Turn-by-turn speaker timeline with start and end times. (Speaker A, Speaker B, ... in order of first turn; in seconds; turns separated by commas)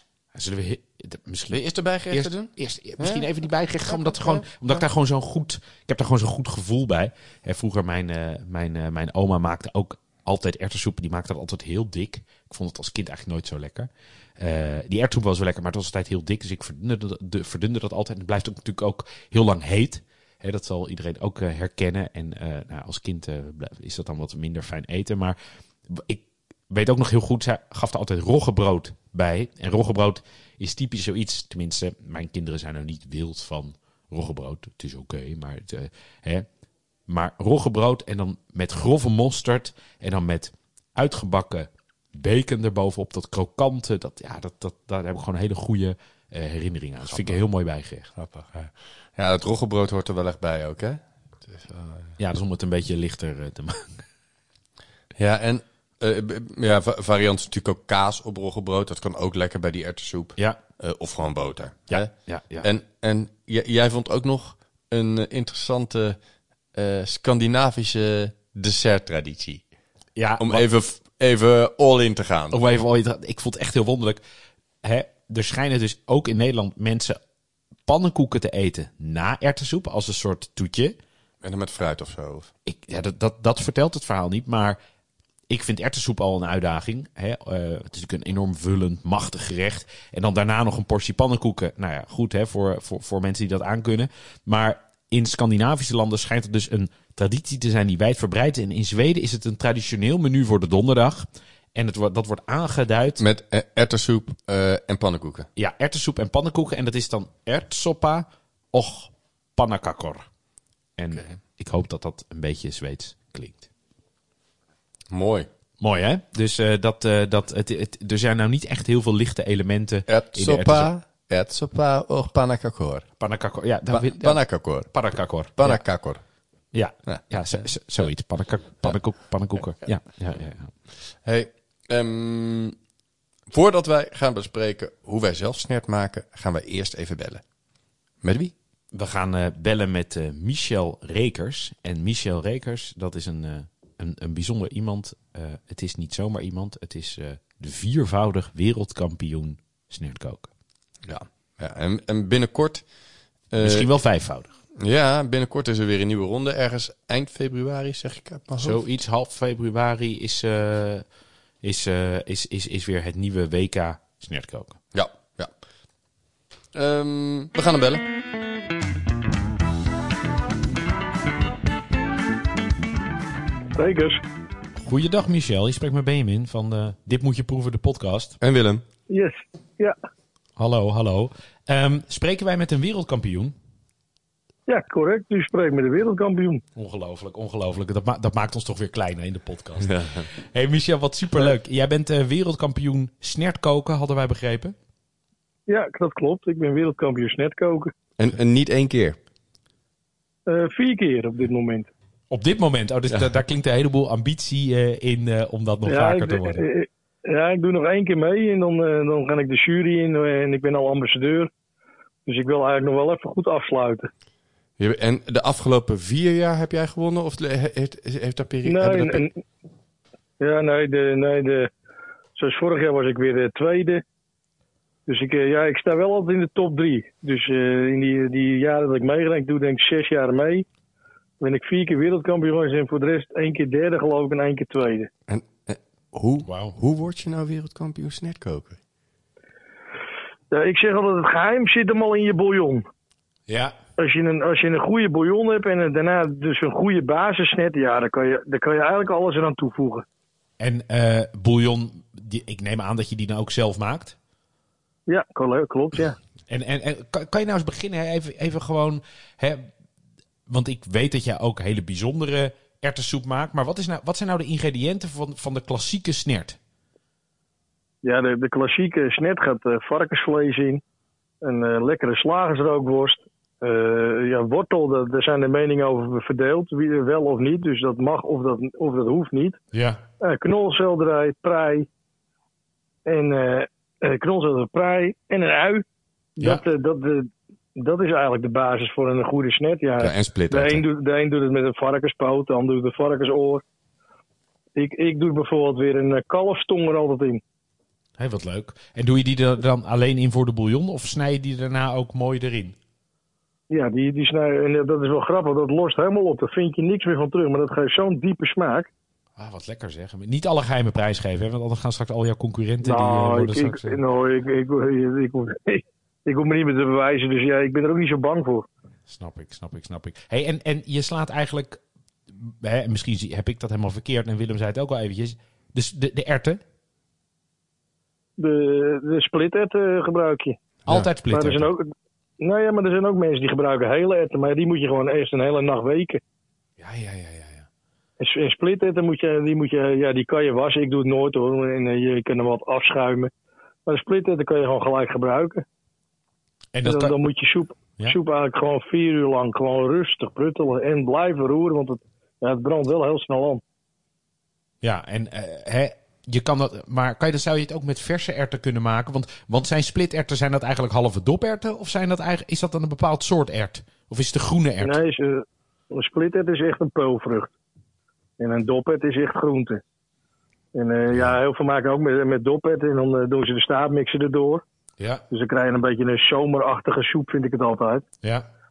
Speaker A: 0.3-25.4, Speaker B: 1.5-3.3, Speaker B: 3.9-4.8, Speaker A: 25.9-36.5, Speaker A: 37.1-48.1, Speaker B: 47.0-47.4, Speaker B: 48.1-52.1, Speaker A: 52.2-54.0, Speaker B: 55.2-66.2, Speaker A: 61.9-62.7, Speaker B: 66.7-69.6, Speaker A: 70.2-70.7, Speaker B: 70.4-72.6, Speaker A: 72.5-74.2, Speaker A: 74.8-77.2, Speaker A: 77.9-81.0, Speaker B: 81.4-82.5, Speaker A: 82.7-84.8, Speaker A: 85.5-103.2, Speaker B: 103.2-105.5, Speaker A: 105.6-110.3, Speaker A: 111.0-113.7, Speaker B: 115.1-115.5, Speaker A: 115.8-120.9, Speaker B: 120.1-123.1, Speaker A: 123.2-125.8, Speaker B: 123.9-126.2, Speaker A: 126.7-130.7, Speaker B: 127.1-128.1, Speaker B: 131.0-132.8, Speaker B: 133.5-137.4, Speaker B: 138.2-138.5, Speaker A: 138.9-150.5, Speaker B: 151.0-152.9, Speaker B: 153.5-153.9, Speaker A: 153.6-154.5, Speaker B: 154.8-158.8, Speaker A: 158.6-161.1, Speaker A: 161.6-164.8, Speaker B: 164.9-165.5, Speaker B: 166.7-168.0, Speaker C: 173.7-174.2, Speaker A: 174.8-178.4, Speaker B: 178.4-178.8, Speaker C: 179.1-179.9, Speaker A: 180.6-183.5, Speaker C: 184.7-186.6, Speaker A: 186.8-194.8, Speaker B: 189.8-190.3, Speaker C: 195.7-197.9, Speaker B: 198.2-199.2, Speaker C: 200.5-201.9, Speaker A: 202.3-206.6, Speaker C: 205.9-211.5, Speaker C: 212.3-214.1, Speaker B: 214.8-219.2, Speaker C: 218.7-219.3, Speaker C: 220.4-221.7, Speaker C: 222.4-224.0, Speaker C: 225.1-230.7, Speaker C: 231.4-235.1, Speaker B: 235.3-238.8, Speaker A: 236.5-236.8, Speaker C: 240.5-242.9, Speaker A: 243.5-243.8, Speaker C: 244.0-250.1, Speaker A: 250.6-254.2, Speaker C: 255.1-256.2, Speaker A: 256.5-259.7, Speaker A: 260.5-266.6, Speaker C: 268.0-270.8, Speaker C: 271.4-279.6, Speaker A: 279.7-280.0, Speaker C: 280.2-281.9, Speaker C: 283.1-285.8, Speaker C: 286.4-293.6, Speaker B: 290.0-290.8, Speaker C: 294.8-297.4, Speaker A: 298.2-302.8, Speaker C: 303.7-308.9, Speaker A: 309.4-314.0, Speaker C: 312.8-318.7, Speaker A: 319.1-321.8, Speaker A: 322.3-326.6, Speaker C: 328.4-330.6, Speaker A: 330.9-331.7, Speaker C: 331.3-336.2, Speaker A: 336.8-337.7, Speaker C: 338.2-343.3, Speaker C: 343.9-345.6, Speaker A: 346.8-347.1, Speaker C: 346.9-353.6, Speaker A: 354.8-365.0, Speaker C: 364.8-367.5, Speaker C: 368.4-369.8, Speaker C: 370.7-374.6, Speaker C: 375.3-378.1